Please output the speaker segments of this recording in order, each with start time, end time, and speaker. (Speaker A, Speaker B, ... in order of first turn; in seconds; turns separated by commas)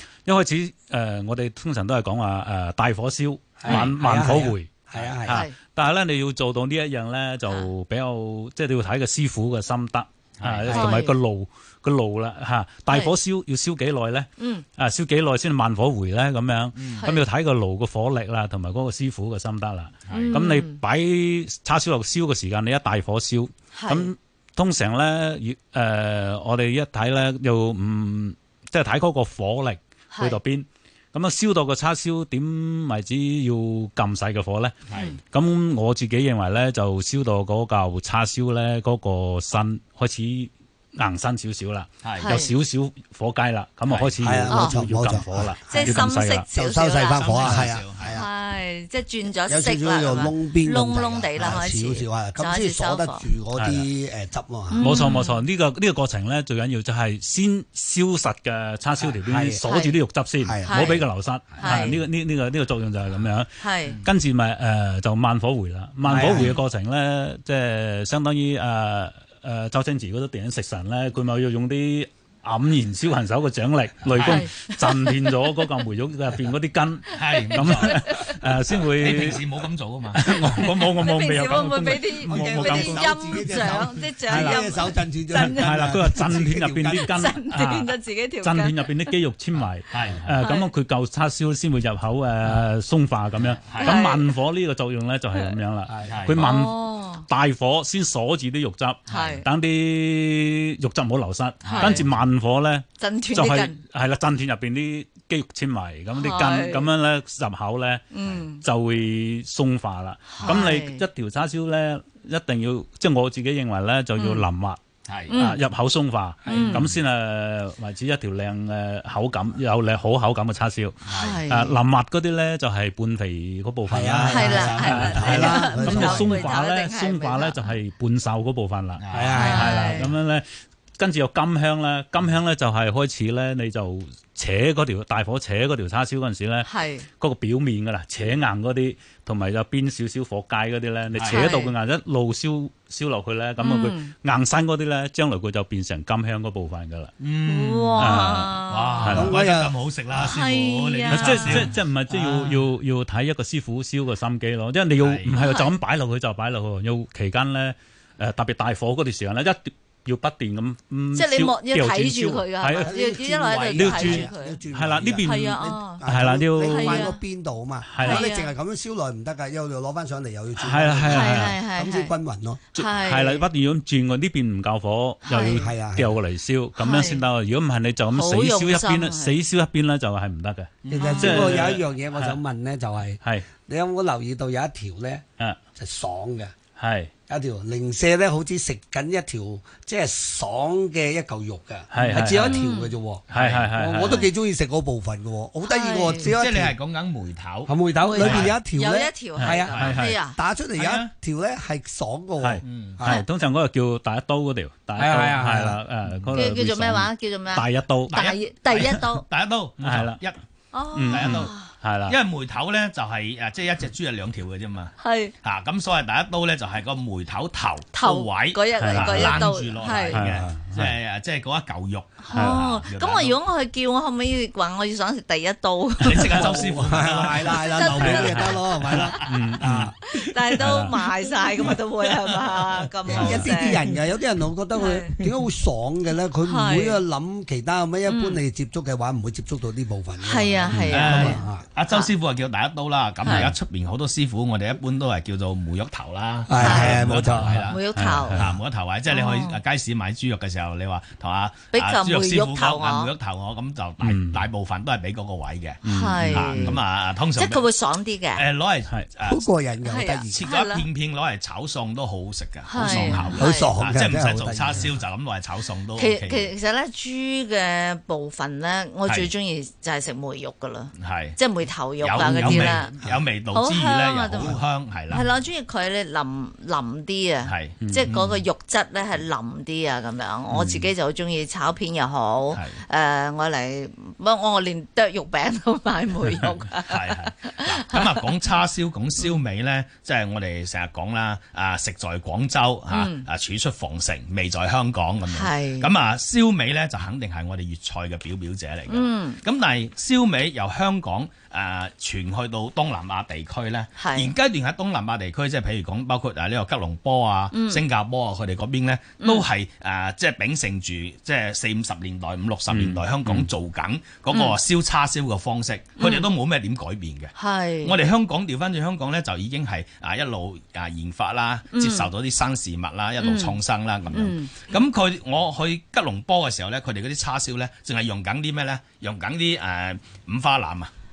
Speaker A: 0.2-4.7, Speaker B: 3.6-5.4, Speaker C: 3.7-4.1, Speaker A: 5.2-46.5, Speaker D: 5.3-5.5, Speaker C: 10.4-10.9, Speaker D: 10.7-11.2, Speaker D: 14.4-14.7, Speaker C: 16.8-17.1, Speaker D: 17.0-17.2, Speaker C: 20.1-20.3, Speaker D: 20.1-20.8, Speaker D: 23.7-24.1, Speaker D: 30.1-30.4, Speaker D: 34.9-35.2, Speaker C: 42.0-42.3, Speaker D: 42.2-42.5, Speaker C: 43.9-44.1, Speaker B: 44.2-48.3, Speaker D: 44.5-44.8, Speaker D: 45.7-53.3, Speaker C: 47.1-48.2, Speaker B: 49.5-54.9, Speaker A: 53.5-53.9, Speaker D: 54.7-55.4, Speaker A: 54.8-79.4, Speaker B: 59.0-59.6, Speaker D: 59.6-60.0, Speaker B: 60.4-61.0, Speaker D: 60.6-61.1, Speaker D: 61.6-62.0, Speaker D: 63.6-64.0, Speaker B: 66.0-66.5, Speaker C: 66.2-66.5, Speaker C: 74.1-74.4, Speaker D: 74.2-75.1, Speaker C: 77.1-78.0, Speaker D: 77.2-78.5, Speaker C: 79.0-80.5, Speaker A: 80.1-84.7, Speaker D: 80.5-86.3, Speaker B: 82.2-87.2, Speaker A: 85.3-108.0, Speaker D: 86.9-89.1, Speaker C: 89.9-90.4, Speaker D: 90.4-90.7, Speaker C: 93.6-94.0, Speaker D: 93.8-94.3, Speaker B: 95.9-96.3, Speaker C: 96.0-96.5, Speaker D: 96.3-97.2, Speaker C: 99.1-99.4, Speaker D: 99.1-99.5, Speaker D: 101.6-102.0, Speaker C: 101.6-102.1, Speaker D: 103.0-103.8, Speaker D: 106.2-106.9, Speaker D: 108.1-108.6, Speaker A: 108.6-114.8, Speaker D: 110.3-111.0, Speaker D: 114.2-114.5, Speaker C: 115.0-115.3, Speaker D: 115.3-115.6, Speaker A: 115.3-130.4, Speaker B: 116.4-116.8, Speaker D: 116.5-116.8, Speaker C: 116.6-116.9, Speaker C: 121.0-121.4, Speaker D: 121.1-121.8, Speaker B: 123.9-126.5, Speaker D: 124.3-127.7, Speaker C: 129.0-129.6, Speaker B: 129.1-130.0, Speaker D: 129.3-130.1, Speaker A: 131.0-147.1, Speaker D: 136.6-137.1, Speaker C: 141.1-141.4, Speaker D: 141.2-141.7, Speaker D: 143.6-144.1, Speaker C: 147.2-152.5, Speaker D: 147.4-149.3, Speaker A: 148.0-149.4, Speaker B: 149.1-149.7, Speaker D: 150.2-151.7, Speaker A: 151.1-162.9, Speaker C: 155.0-155.4, Speaker D: 155.3-155.8, Speaker D: 161.1-164.6, Speaker B: 162.8-165.3, Speaker A: 163.7-167.1, Speaker D: 165.1-166.0, Speaker B: 165.9-172.6, Speaker D: 166.6-167.2, Speaker A: 167.8-168.3, Speaker D: 168.0-168.5, Speaker A: 170.6-171.6, Speaker D: 171.1-172.1, Speaker A: 172.7-182.4, Speaker D: 172.7-173.5, Speaker D: 175.2-175.7, Speaker B: 175.5-176.2, Speaker D: 176.8-177.2, Speaker D: 178.1-179.4, Speaker C: 180.8-181.7, Speaker B: 180.9-185.2, Speaker D: 181.0-181.6, Speaker A: 183.2-183.5, Speaker B: 185.8-186.5, Speaker A: 186.8-187.1, Speaker B: 187.3-196.7, Speaker A: 191.9-192.6, Speaker D: 192.1-192.9, Speaker A: 193.3-194.2, Speaker C: 193.3-193.7, Speaker D: 194.0-194.3, Speaker D: 195.6-196.3, Speaker C: 196.2-198.5, Speaker B: 197.7-203.2, Speaker D: 198.0-200.4, Speaker A: 199.3-200.2, Speaker C: 200.8-201.1, Speaker A: 202.4-208.2, Speaker C: 202.6-203.0, Speaker B: 205.0-205.8, Speaker D: 206.3-209.2, Speaker C: 208.1-210.4, Speaker A: 209.8-210.2, Speaker D: 210.7-211.7, Speaker A: 210.9-212.2, Speaker C: 211.1-211.5, Speaker C: 212.1-223.4, Speaker D: 215.0-215.3, Speaker D: 217.9-220.2, Speaker A: 218.8-219.5, Speaker A: 220.1-220.9, Speaker D: 222.2-226.7, Speaker A: 222.3-222.6, Speaker C: 226.0-230.3, Speaker B: 226.3-229.9, Speaker D: 227.4-229.3, Speaker A: 228.0-228.6, Speaker A: 229.1-229.9, Speaker D: 230.0-233.8, Speaker A: 230.5-231.0, Speaker C: 231.2-231.8, Speaker B: 233.1-241.6, Speaker A: 233.1-233.5, Speaker D: 234.7-235.1, Speaker D: 236.4-237.0, Speaker D: 238.1-238.4, Speaker D: 240.2-242.1, Speaker C: 240.9-247.8, Speaker D: 243.2-243.5, Speaker A: 243.2-243.5, Speaker B: 246.5-247.6, Speaker D: 246.6-247.1, Speaker A: 246.6-248.6, Speaker D: 247.7-248.4, Speaker C: 248.3-257.6, Speaker D: 249.1-249.6, Speaker D: 251.7-253.1, Speaker A: 254.0-254.5, Speaker A: 255.8-256.8, Speaker D: 255.8-256.8, Speaker D: 257.4-258.5, Speaker C: 258.3-259.4, Speaker B: 259.3-260.4, Speaker D: 259.8-260.9, Speaker C: 260.3-266.5, Speaker D: 262.6-263.7, Speaker A: 262.8-263.3, Speaker B: 263.4-264.9, Speaker D: 265.9-272.9, Speaker C: 271.0-271.4, Speaker C: 272.0-275.2, Speaker B: 272.4-273.2, Speaker D: 273.5-288.3, Speaker C: 277.4-278.4, Speaker A: 277.8-278.1, Speaker C: 280.5-280.9, Speaker C: 282.5-282.8, Speaker C: 286.9-330.9, Speaker D: 292.9-293.3, Speaker D: 295.2-295.9, Speaker D: 298.9-299.4, Speaker D: 304.0-304.3, Speaker D: 307.5-307.8, Speaker D: 309.2-309.4, Speaker A: 312.7-313.5, Speaker D: 314.3-314.6, Speaker D: 316.0-316.3, Speaker D: 317.4-317.9, Speaker D: 321.7-322.1, Speaker D: 323.2-323.6, Speaker D: 324.1-324.7